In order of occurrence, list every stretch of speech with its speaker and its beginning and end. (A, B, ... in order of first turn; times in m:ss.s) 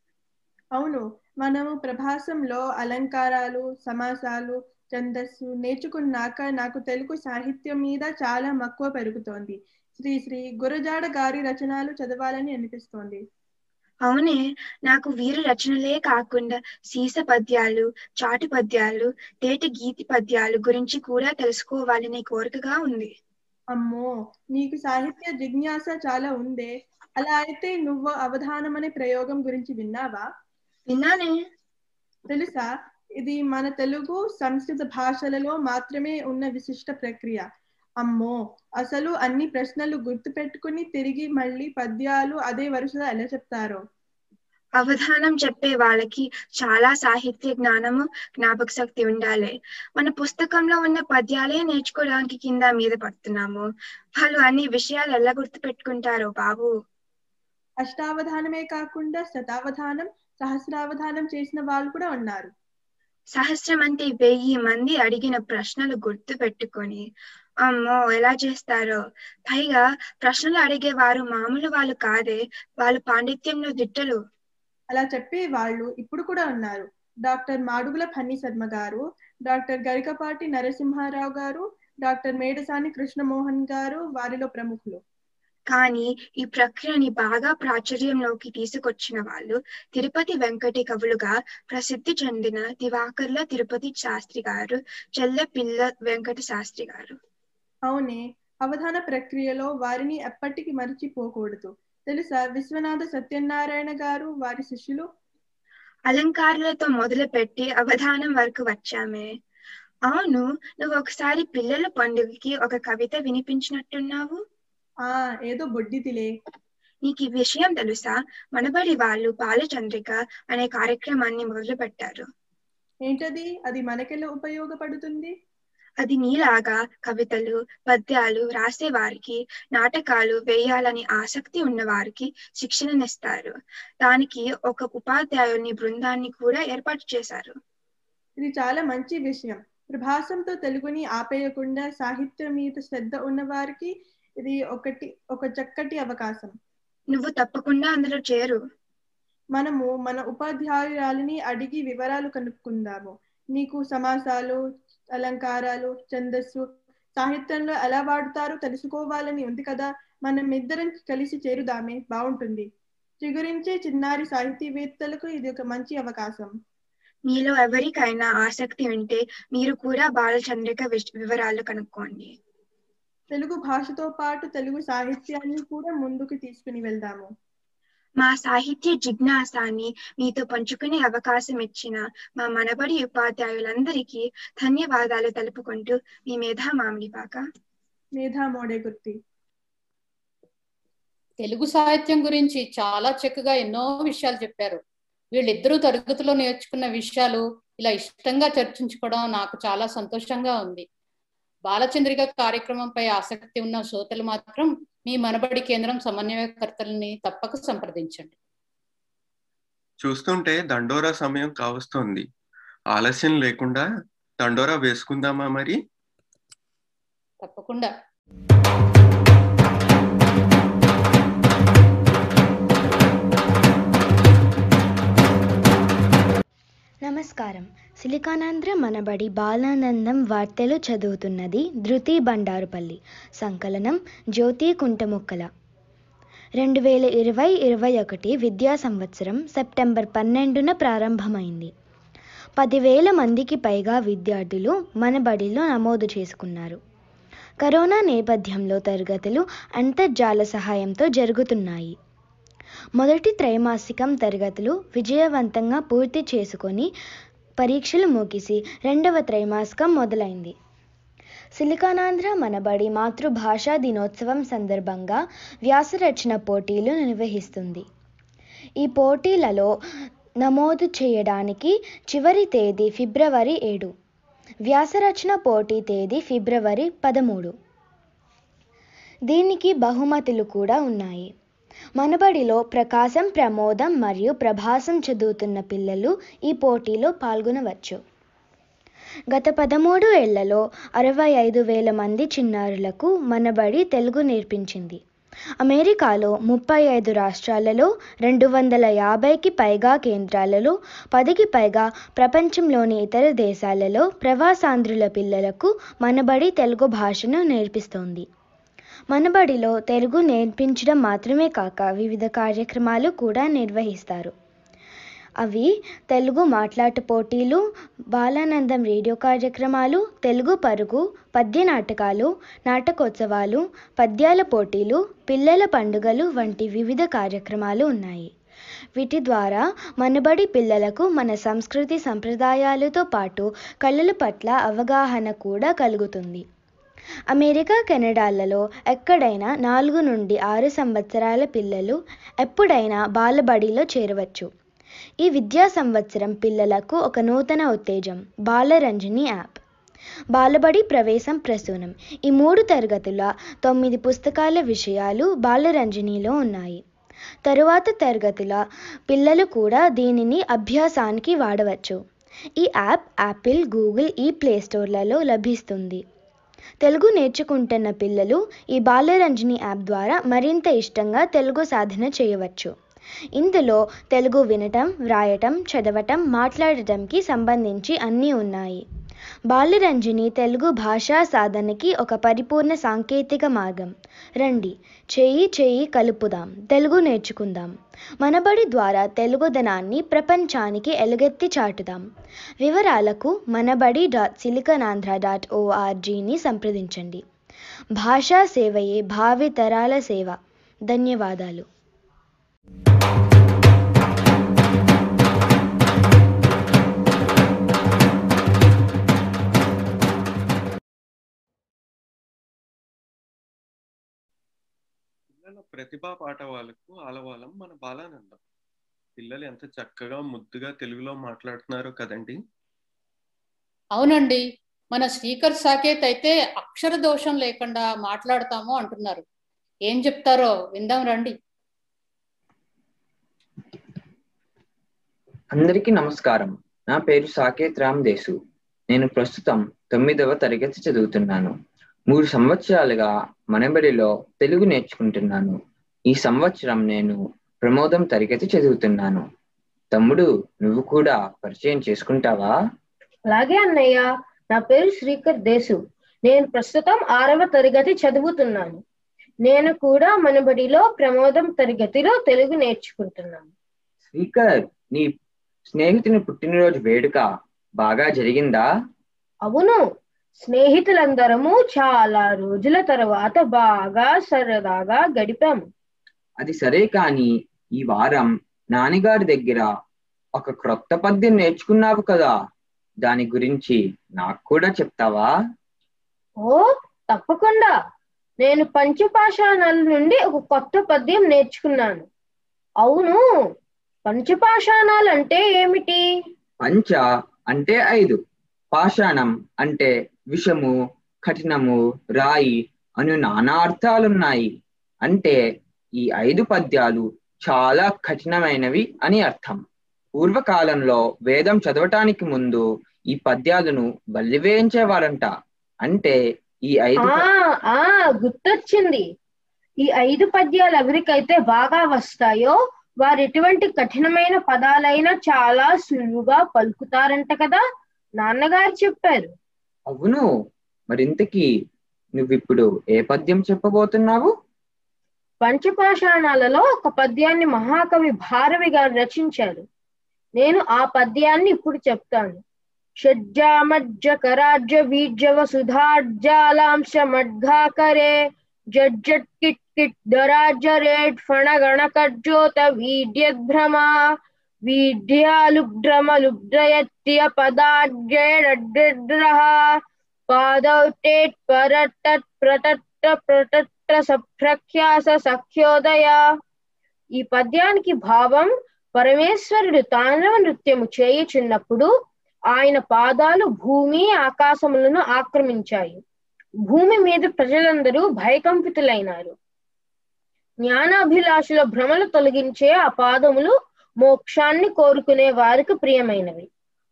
0:00.8-0:13.2 A
0:14.0-0:23.1 B
0:23.8-0:30.2 A
0:30.9-0:31.4 B
0:32.3-0:32.7 A
0:33.2-0:37.4 A
0:38.0-0:43.8 A
0:44.8-0:53.6 B
0:54.2-0:56.7 B
0:57.8-1:02.5 A
1:03.4-1:07.0 B
1:07.6-1:09.0 B
1:09.5-1:14.2 B
1:14.9-1:25.0 A
1:25.7-1:37.2 B
1:37.9-1:45.0 A
1:46.1-1:49.3 B
1:50.1-1:54.4 B
1:55.1-1:56.3 A
1:57.1-2:02.3 B
2:03.1-2:05.3 A
2:06.0-2:17.6 B
2:18.4-2:23.9 A
2:24.4-2:26.5 A
2:27.1-2:28.6 B
2:29.6-2:34.6 A
2:35.2-2:36.6 A
2:37.2-2:42.7 A
2:43.2-2:46.5 A
2:47.3-2:52.4 B
2:53.4-2:57.3 A
2:58.2-3:07.4 B
3:08.2-3:09.2 A
3:11.4-3:14.8 C
3:15.4-3:20.8 C
3:21.7-3:28.4 C
3:30.0-3:32.3 D
3:32.9-3:33.9 D
3:34.4-3:35.8 D
3:37.4-3:37.9 C
3:47.0-3:55.5 E
3:56.6-4:01.7 E
4:02.6-4:06.8 E
4:07.6-4:12.0 E
4:13.0-4:16.9 E
4:17.6-4:20.6 E
4:21.6-4:27.9 E
4:28.8-4:29.7 E
4:30.4-4:33.9 E
4:34.7-4:37.5 E
4:39.3-4:41.3 E
4:42.0-4:48.0 E
4:49.3-4:55.0 E
4:55.6-5:08.3 E
5:09.1-5:14.3 E
5:15.4-5:17.6 E
5:18.1-5:28.3 E
5:29.0-5:36.4 E
5:37.3-5:44.5 E
5:45.2-5:49.6 E
5:50.4-5:56.8 E
5:57.5-6:02.0 E
6:02.6-6:06.0 E
6:06.8-6:12.7 E
6:13.4-6:18.8 E
6:19.5-6:32.1 E
6:32.6-6:37.2 E
6:38.0-6:41.7 E
6:55.4-6:58.4 D
6:59.2-7:02.4 D
7:04.0-7:09.2 C
7:09.9-7:11.4 C
7:15.5-7:18.4 F
7:18.9-7:21.5 F
7:22.1-7:25.6 F
7:26.1-7:29.2 F
7:29.9-7:32.5 F
7:33.3-7:38.8 G
7:39.5-7:43.5 G
7:44.1-7:45.1 F
7:45.7-7:47.3 F
7:47.8-7:48.6 F
7:49.5-7:49.8 G
7:50.4-7:55.6 G
7:56.4-7:57.3 F
7:57.8-7:59.7 F
8:00.4-8:02.3 F
8:03.0-8:05.3 F
8:06.4-8:07.7 G
8:08.4-8:12.0 G
8:12.8-8:13.2 G
8:14.1-8:16.0 G
8:16.6-8:18.2 F
8:18.7-8:20.7 F
8:21.3-8:24.5 F
8:25.1-8:25.4 F
8:26.0-8:29.6 F
8:30.2-8:35.3 F
8:35.8-8:36.2 F
8:36.7-8:37.3 F
8:37.0-8:39.0 G
8:39.8-8:47.6 G
8:48.2-8:49.3 G
8:49.9-8:50.3 F
8:50.9-8:51.5 F
8:52.2-8:54.3 F
8:55.4-8:59.6 G
9:00.4-9:02.4 G
9:03.0-9:08.1 G
9:08.8-9:13.9 G
9:14.7-9:19.6 G
9:20.3-9:26.2 G
9:27.2-9:31.9 G
9:32.5-9:36.0 G
9:36.7-9:39.4 G
9:40.7-9:46.5 G